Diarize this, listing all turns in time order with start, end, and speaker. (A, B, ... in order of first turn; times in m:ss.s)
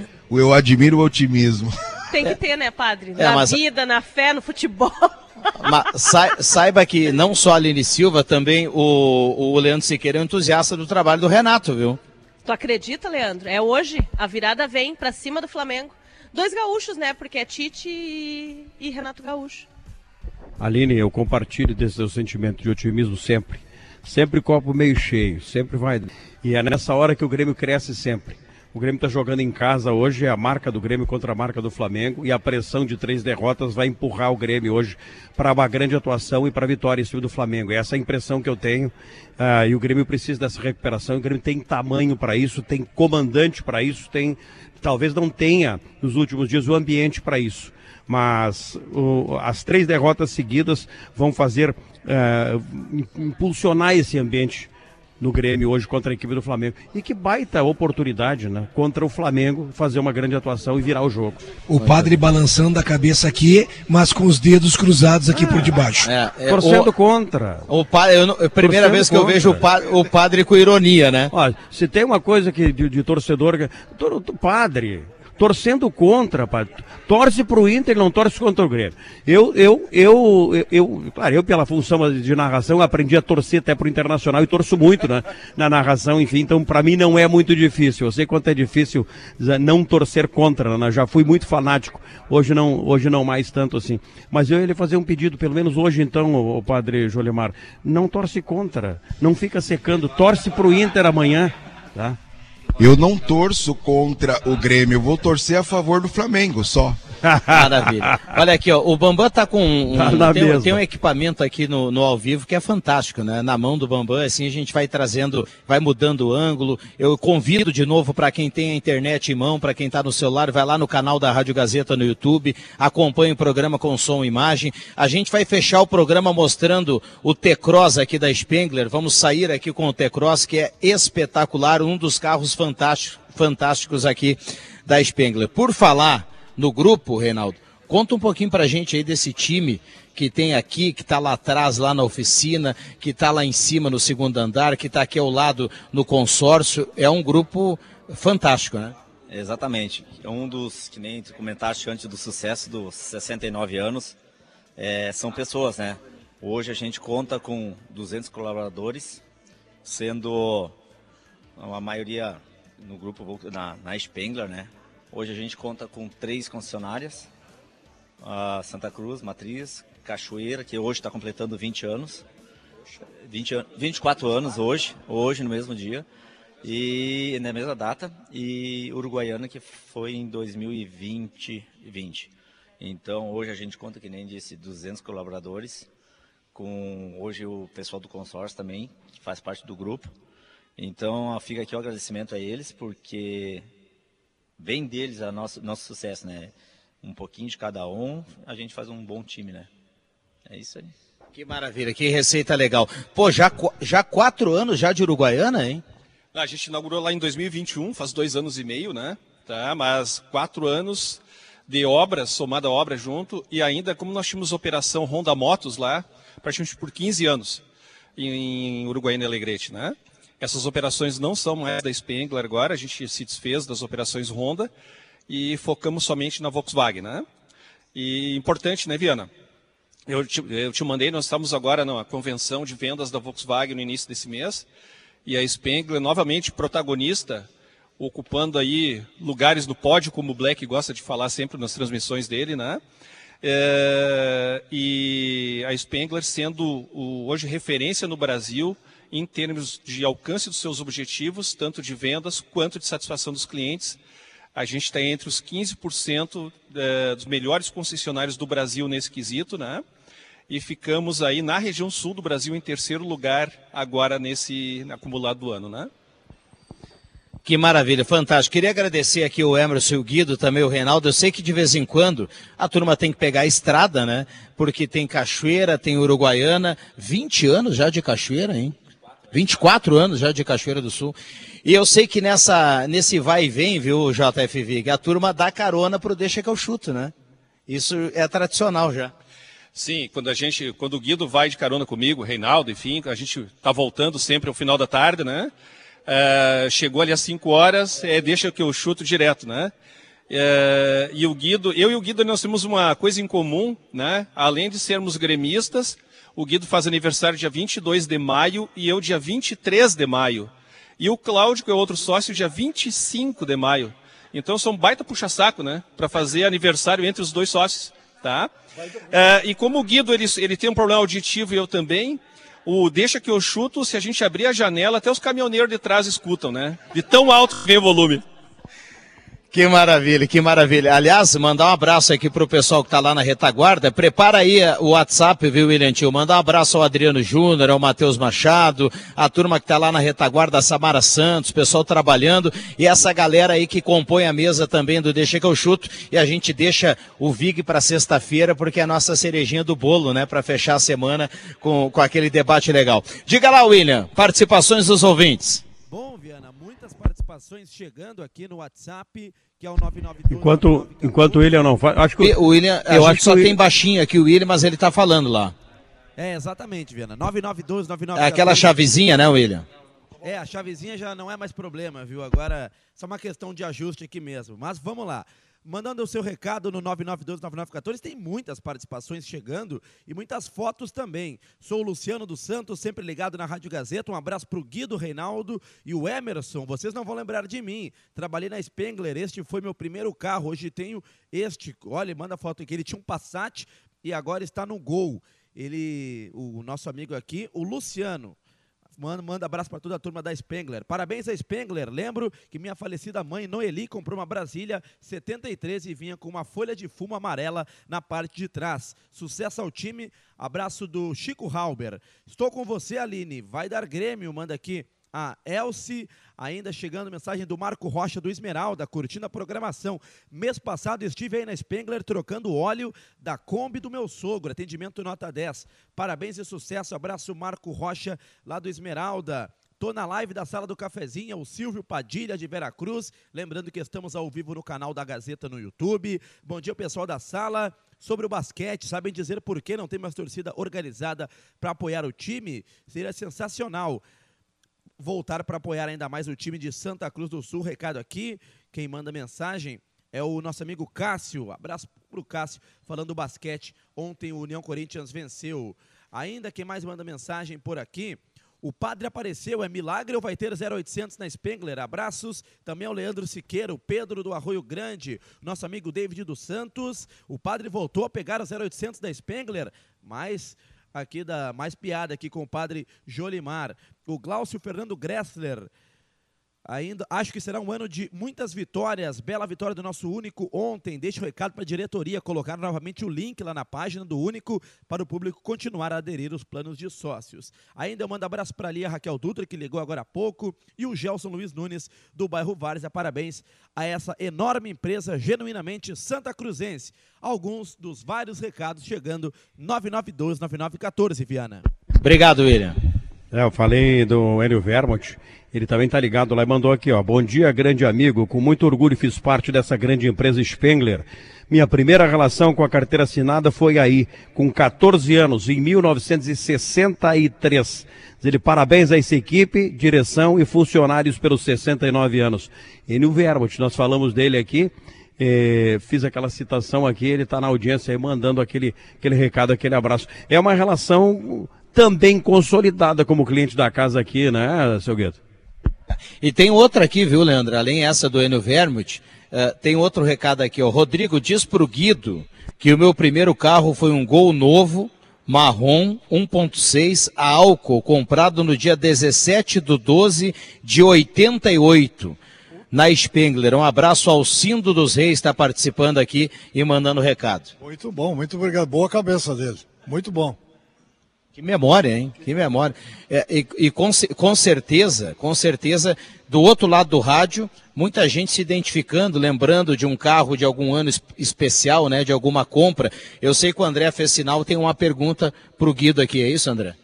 0:00.3-0:01.8 A
0:02.1-0:05.7 B
0:03.2-0:03.6 C
0:05.6-0:12.0 C
0:12.4-0:19.7 B
0:20.6-0:54.7 D
0:55.2-1:02.1 D
1:01.7-1:06.1 E
1:05.4-1:05.7 D
1:06.0-1:06.9 C
1:06.5-1:07.6 D
1:07.7-1:11.3 C
1:08.6-1:09.6 D
1:11.3-1:42.2 D
1:42.8-1:47.0 A
1:47.2-1:48.4 D
1:47.5-2:29.0 C
1:49.9-1:50.8 D
2:29.3-2:34.2 F
2:34.8-2:39.2 F
2:39.8-2:40.8 F
2:41.6-2:47.3 F
2:48.2-2:52.2 F
2:53.2-2:56.1 F
2:56.6-3:05.9 F
3:06.5-3:10.1 F
3:10.8-3:13.7 F
3:14.6-3:19.7 F
3:20.5-3:20.9 F
3:21.4-3:25.8 C
3:26.3-3:37.6 G
3:38.2-3:44.7 G
3:45.3-3:47.3 G
3:48.0-3:49.3 G
3:50.1-3:54.7 G
3:55.3-3:57.5 G
3:58.0-4:02.8 G
4:03.4-4:14.0 G
4:14.6-4:19.8 G
4:20.5-4:25.9 G
4:27.4-4:38.8 C
4:39.3-4:47.1 C
4:47.7-4:49.1 C
4:49.7-4:55.5 G
4:56.1-4:59.7 G
5:00.3-5:18.5 G
5:18.8-5:19.1 H
5:19.1-5:28.2 G
5:29.5-5:55.6 C
5:55.9-6:01.6 I
6:00.3-6:03.6 D
6:02.2-6:05.6 C
6:06.2-6:08.9 I
6:08.2-6:09.7 C
6:10.2-6:38.4 I
6:39.0-7:24.0 I
7:25.0-7:55.7 I
7:56.7-8:21.6 I
8:22.0-8:22.8 C
8:23.3-8:55.2 D
8:56.2-9:12.2 C
9:12.7-9:17.5 C
9:17.6-9:20.4 H
9:21.4-9:36.8 C